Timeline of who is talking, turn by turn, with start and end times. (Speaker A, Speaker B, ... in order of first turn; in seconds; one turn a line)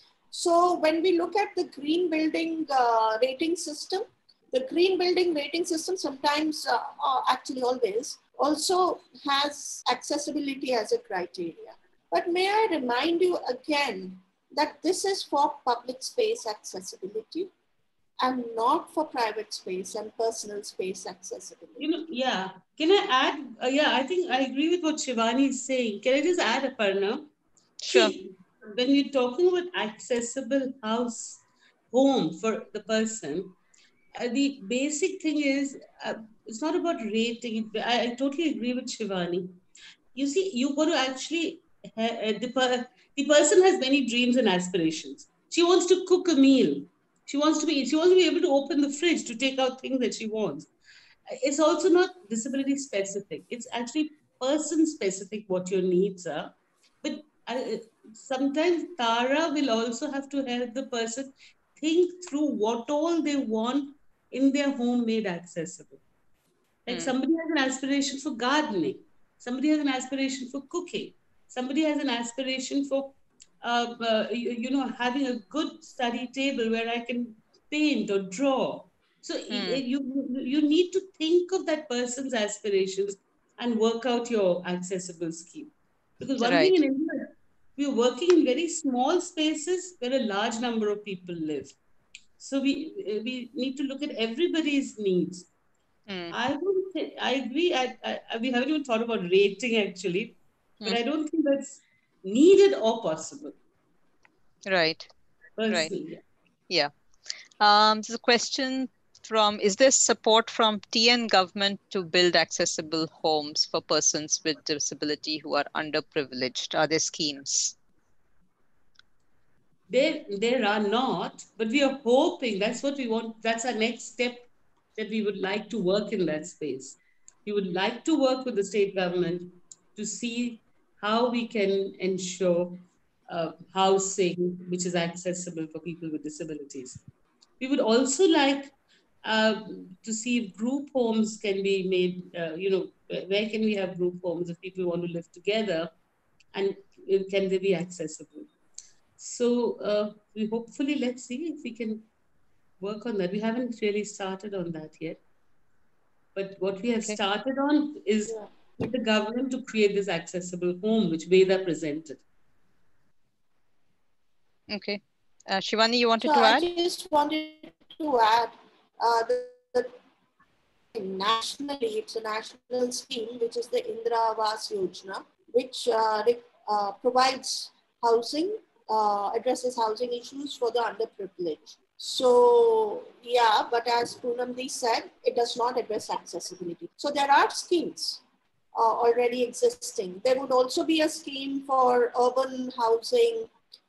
Speaker A: 0.3-17.5
Speaker A: 18.2-21.8
Speaker B: 21.8-27.3
Speaker C: 27.8-28.1
Speaker B: 27.9-33.5
Speaker B: 34.1-39.6
Speaker B: 40.1-50.7
Speaker B: 51.3-66.0
Speaker B: 66.8-91.8
Speaker C: 66.9-67.1
Speaker C: 79.5-79.8
Speaker C: 86.4-86.8
Speaker B: 92.4-95.5
Speaker C: 96.1-96.3
Speaker B: 96.3-103.5
Speaker C: 104.7-105.1
Speaker B: 105.6-106.2
Speaker C: 105.7-105.9
Speaker C: 107.6-117.8
Speaker B: 119.9-137.0
Speaker B: 137.6-145.9
Speaker B: 146.5-148.5
Speaker B: 149.2-152.1
Speaker B: 152.8-155.2
Speaker B: 156.3-162.2
Speaker C: 164.7-166.7
Speaker A: 166.2-169.9
Speaker A: 170.9-188.2
Speaker A: 188.7-193.5